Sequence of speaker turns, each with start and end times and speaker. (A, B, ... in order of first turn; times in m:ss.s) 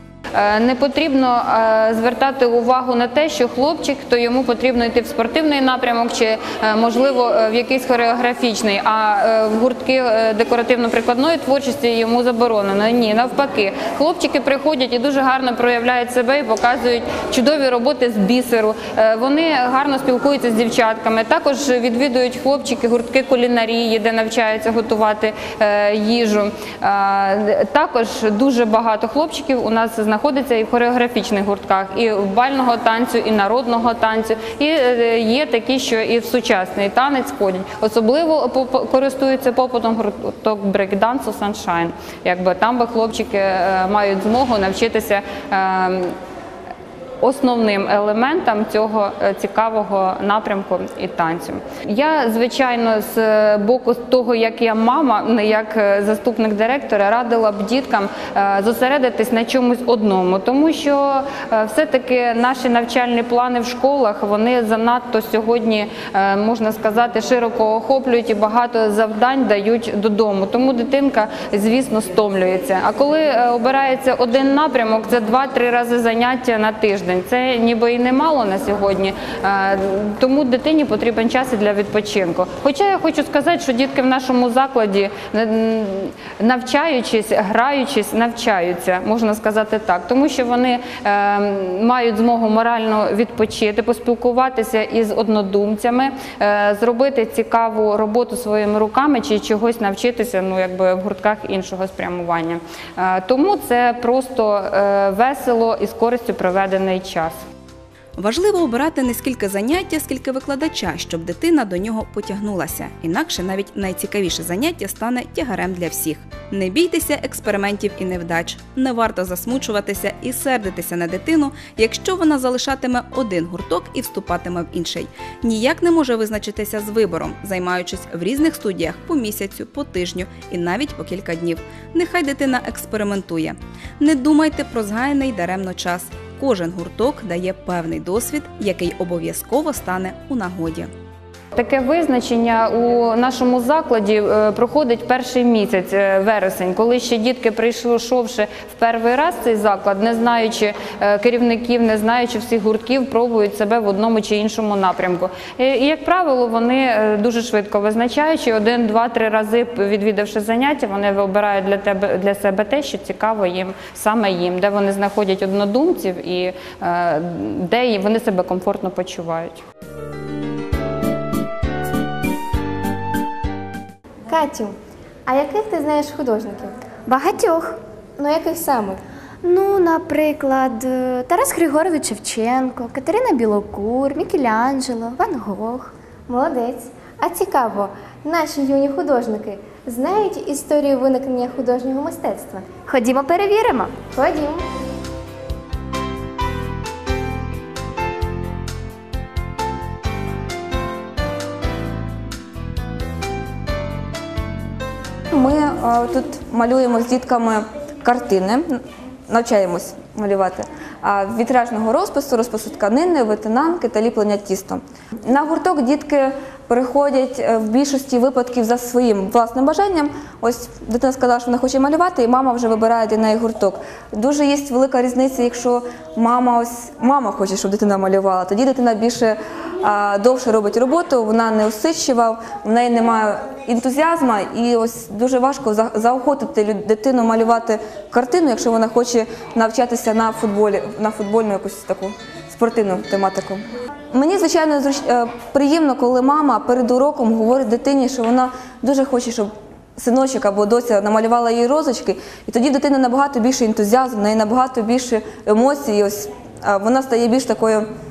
0:00.3-0:46.2 A
0:47.2-1:47.4 A
1:48.2-2:20.9 B
2:21.6-2:49.6 A
2:54.3-2:54.8 C
2:55.3-2:56.7 C
2:57.1-2:57.8 D
2:58.2-2:59.0 C
2:59.4-3:05.9 D
3:06.3-3:12.7 C
3:12.9-3:14.0 D
3:14.0-3:14.6 C
3:25.3-4:17.9 E